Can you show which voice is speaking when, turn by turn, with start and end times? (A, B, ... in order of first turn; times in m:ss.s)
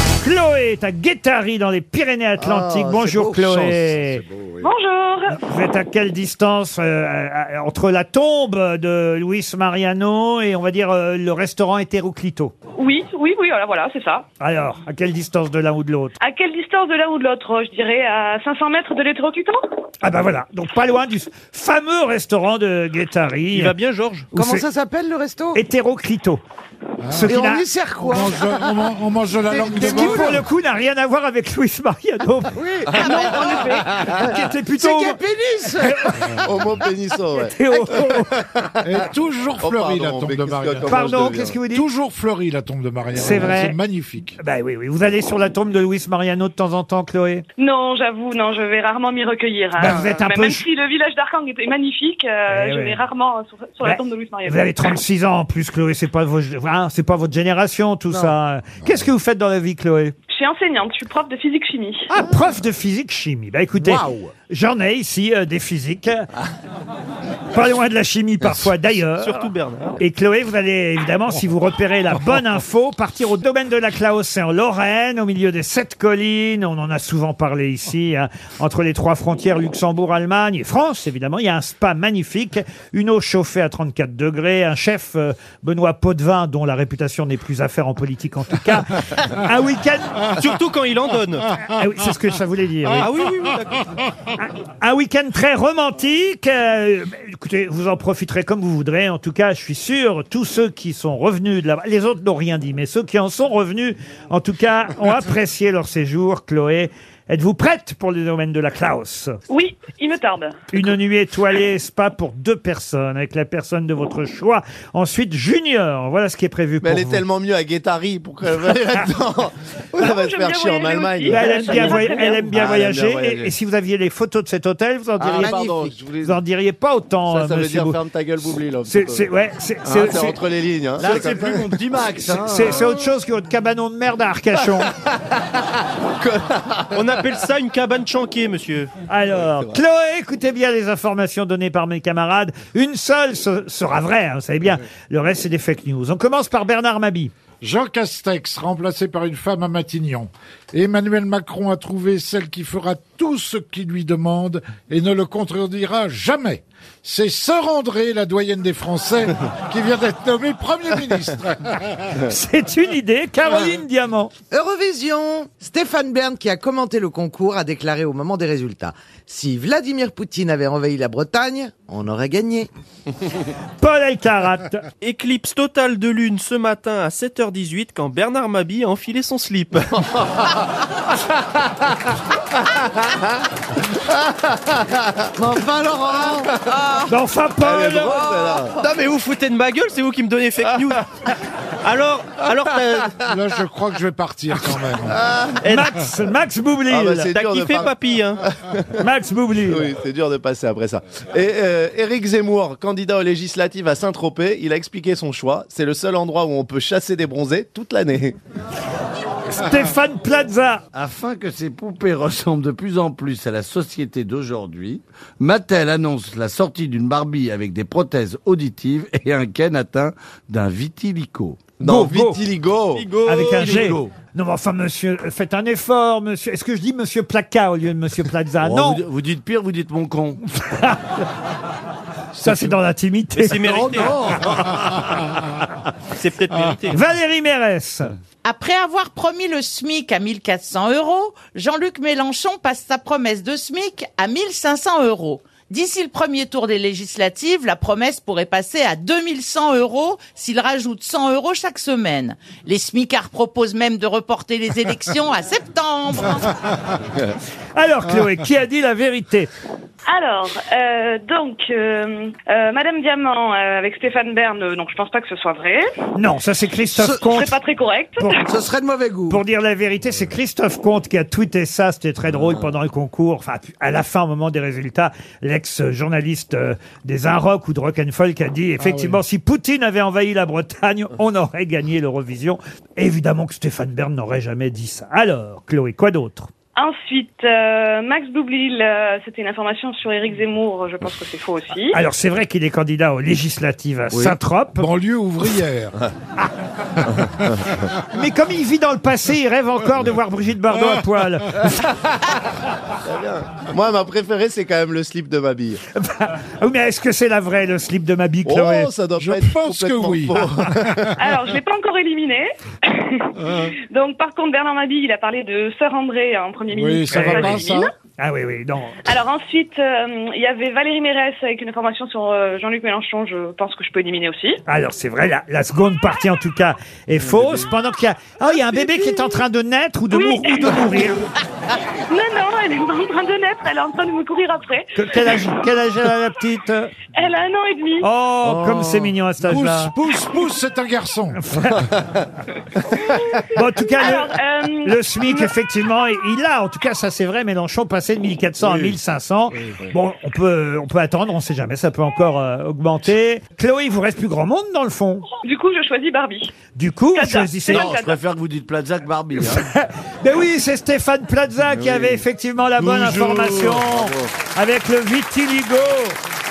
0:00.2-0:04.2 A
0:02.4-0:03.8 B
0:04.6-0:05.4 C
0:05.3-0:12.5 A
0:12.8-0:14.2 C
0:14.4-0:16.2 A
0:16.2-0:19.6 C
0:20.0-0:23.8 A
0:23.5-0:24.3 D
0:24.3-0:24.7 A
0:24.4-0:25.6 B
0:25.5-0:26.4 A
0:27.0-0:27.4 E
0:27.1-0:27.7 A
0:27.2-0:28.9 B
0:28.0-0:30.4 E
0:29.5-0:30.4 B
0:29.8-0:32.6 A
0:32.6-0:34.2 B
0:32.9-0:33.8 F
0:33.0-0:33.9 C
0:33.1-0:33.4 G
0:34.0-0:36.5 A
0:34.7-0:36.2 B
0:36.3-0:39.0 F
0:37.4-0:38.3 A
0:38.8-0:41.1 E
0:39.6-0:41.6 F
0:40.9-0:41.9 A
0:41.7-0:44.4 E
0:43.2-0:43.8 A
0:44.4-0:47.4 A
0:47.6-0:54.9 C
0:49.8-0:50.6 A
0:52.5-0:53.0 A
0:53.8-1:00.1 A
0:58.1-0:58.4 B
1:00.3-1:02.1 C
1:02.1-1:06.3 A
1:03.8-1:04.3 B
1:07.5-1:30.2 A
1:09.1-1:10.0 D
1:30.4-1:31.5 D
1:31.7-1:33.1 A
1:33.0-1:34.0 D
1:34.4-1:49.4 A
1:49.5-1:50.6 C
1:50.7-1:57.3 A
1:56.8-2:03.5 F
2:00.0-2:02.5 C
2:01.3-2:05.6 A
2:05.2-2:06.4 F
2:05.2-2:06.0 B
2:06.2-2:08.0 A
2:07.3-2:09.3 F
2:08.8-2:10.4 A
2:09.8-2:12.9 F
2:11.0-2:12.8 H
2:12.3-2:14.9 A
2:15.0-2:17.5 F
2:16.9-2:18.9 D
2:19.1-2:27.3 A
2:27.6-2:41.9 E
2:42.2-2:44.3 A
2:44.5-2:52.7 B
2:53.8-2:54.8 A
2:55.0-3:00.3 D
3:04.1-3:04.4 F
3:05.4-3:07.0 B
3:07.1-3:08.2 A
3:07.6-3:08.8 F
3:08.4-3:08.6 B
3:08.8-3:11.0 D
3:11.8-3:13.2 D
3:13.2-3:15.2 E
3:15.2-3:15.6 F
3:15.6-3:15.9 D
3:15.7-3:17.3 A
3:16.9-3:18.0 F
3:17.3-3:18.4 D
3:18.6-3:19.0 F
3:19.0-3:19.9 A
3:19.7-3:28.4 F
3:29.5-3:30.8 A
3:30.9-3:41.7 H
3:41.8-3:43.1 F
3:41.8-3:42.4 A
3:42.9-3:44.0 D
3:43.2-3:49.0 A
3:43.5-3:44.1 H
3:48.6-3:50.4 H
3:50.6-3:51.1 A
3:52.4-3:53.9 A
3:53.3-3:54.3 D
3:53.7-3:55.1 H
3:56.1-3:57.1 D
3:56.9-3:58.1 A
3:58.4-4:16.5 G
4:17.8-4:19.5 A
4:20.1-4:25.8 C
4:26.2-4:27.6 A
4:27.0-4:27.2 B
4:27.3-4:28.3 C
4:28.4-4:29.4 B
4:29.3-4:46.5 A
4:38.8-4:39.2 E
4:46.8-4:52.0 C
4:51.9-4:54.9 A
4:54.8-4:56.0 E
4:58.1-5:01.9 A
5:03.0-5:05.8 F
5:06.0-5:08.9 A
5:08.5-5:11.1 F
5:09.2-5:11.2 E
5:11.2-5:17.9 C
5:16.7-5:17.9 E
5:17.1-5:17.6 A
5:18.2-5:19.0 A
5:19.1-5:24.6 C
5:24.7-5:31.2 A
5:28.5-5:29.4 C
5:30.1-5:31.1 C
5:32.1-5:34.9 C
5:35.0-5:36.9 A
5:37.1-5:38.1 C
5:38.0-5:39.9 A
5:38.4-5:39.1 F
5:39.4-5:41.4 E
5:41.4-5:41.9 A
5:43.1-5:43.4 C
5:43.5-5:55.3 A
5:44.0-5:45.5 C
5:48.6-5:49.0 H
5:55.4-5:56.5 C
5:56.8-5:57.9 A
5:57.2-5:58.2 C
5:57.7-5:59.7 H
5:59.5-6:06.2 A
6:01.7-6:02.2 H
6:02.8-6:04.3 H